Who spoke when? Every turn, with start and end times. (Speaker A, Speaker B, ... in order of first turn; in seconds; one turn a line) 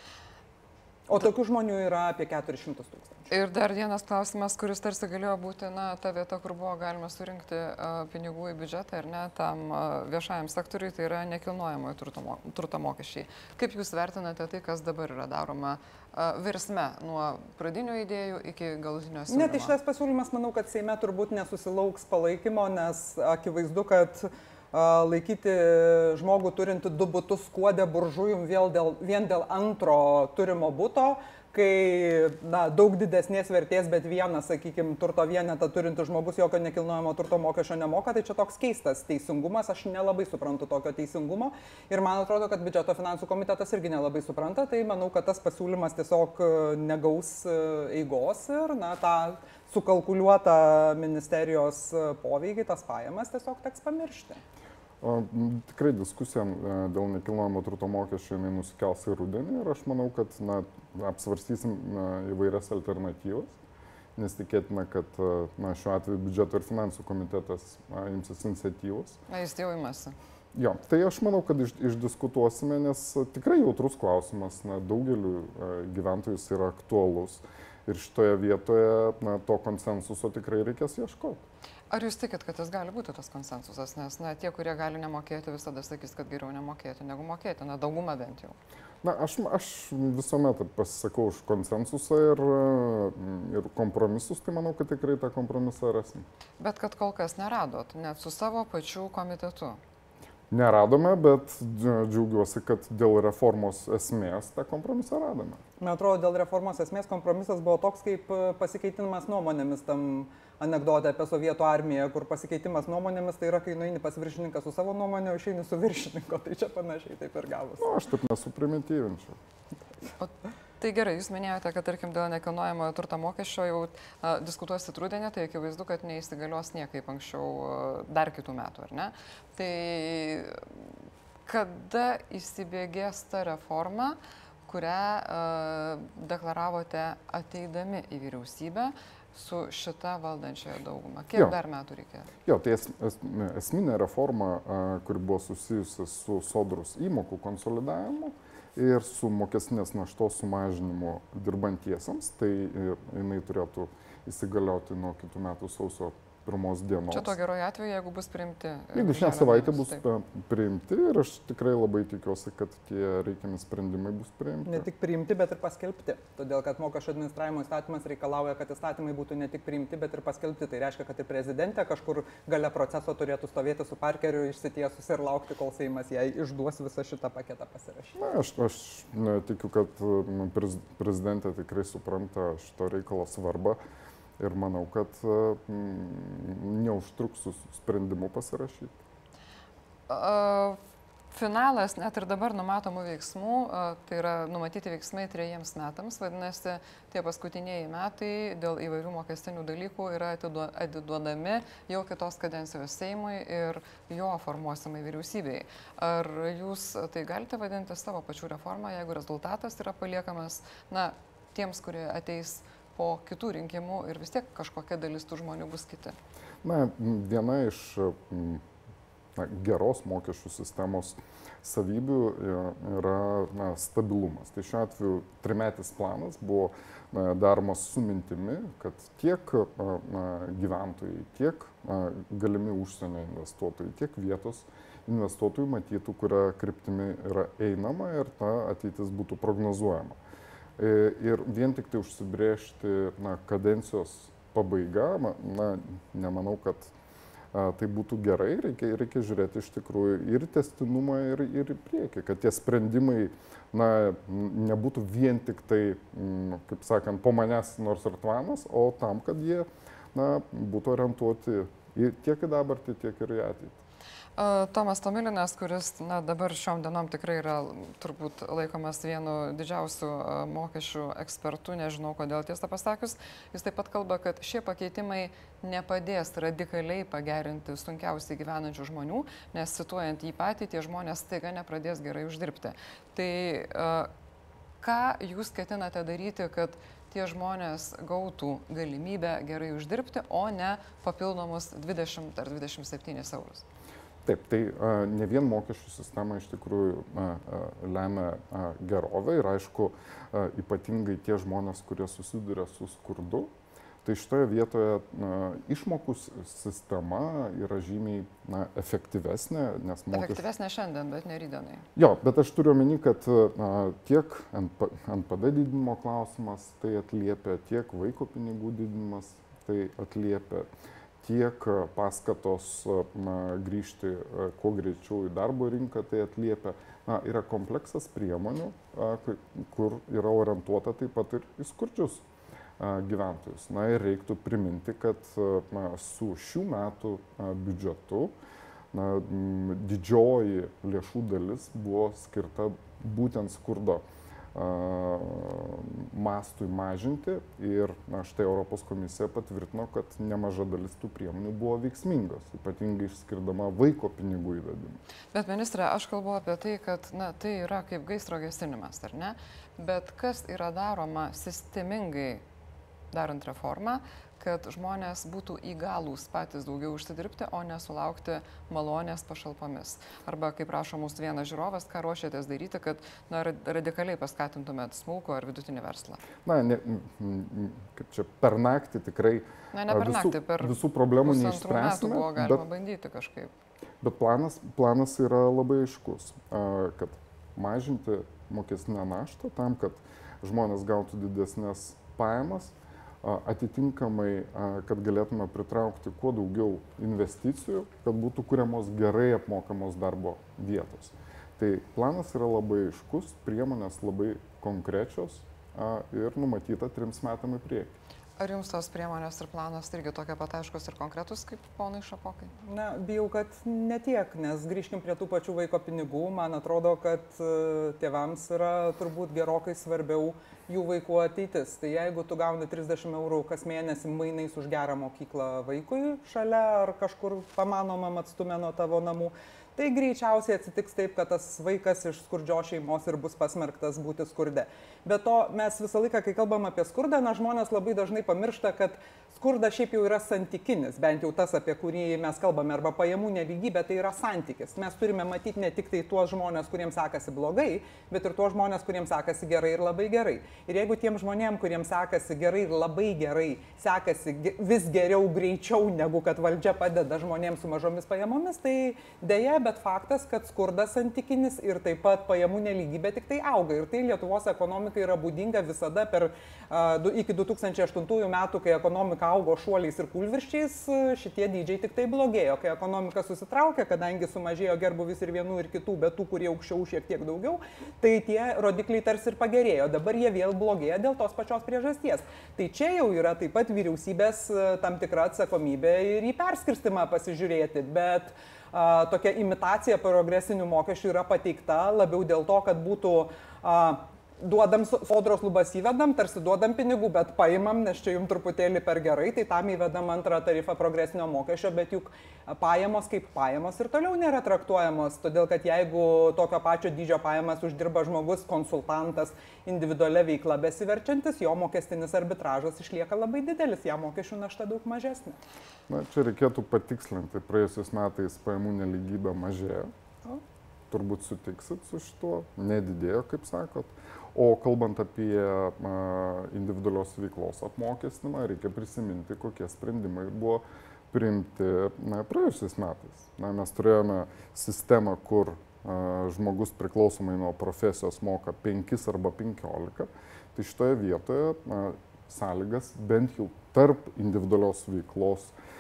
Speaker A: 1.1-3.3
Speaker B: 3.3-19.8
Speaker A: 19.3-54.4
Speaker C: 55.0-63.6
Speaker C: 64.2-69.2
Speaker B: 69.3-70.2
Speaker C: 70.5-81.4
Speaker B: 81.9-88.6
Speaker C: 89.0-96.3
Speaker B: 96.6-99.8
Speaker C: 100.5-105.6
Speaker A: 105.8-117.9
Speaker C: 117.8-119.4
Speaker B: 120.2-130.9
Speaker B: 131.5-142.3
Speaker C: 142.4-157.4
Speaker B: 157.1-160.0
Speaker C: 158.9-164.9
Speaker A: 164.7-178.2
Speaker C: 178.2-183.8
Speaker C: 184.4-189.0
Speaker B: 190.1-190.8
Speaker B: 191.3-216.2
Speaker C: 216.6-218.6
Speaker C: 219.4-240.2
Speaker C: 240.8-246.9
Speaker C: 247.5-263.8
Speaker B: 264.4-284.1
Speaker B: 284.8-293.6
Speaker C: 294.2-303.5
Speaker C: 304.0-310.4
Speaker B: 310.1-311.9
Speaker C: 312.0-320.7
Speaker C: 321.2-332.2
Speaker C: 332.8-338.3
Speaker C: 338.9-344.0
Speaker C: 344.5-355.0
Speaker B: 355.3-362.4
Speaker B: 363.1-376.2
Speaker C: 376.4-382.6
Speaker B: 379.7-383.5
Speaker C: 384.0-408.0
Speaker B: 408.4-412.5
Speaker A: 412.6-515.4
Speaker C: 515.9-520.4
Speaker C: 520.9-545.5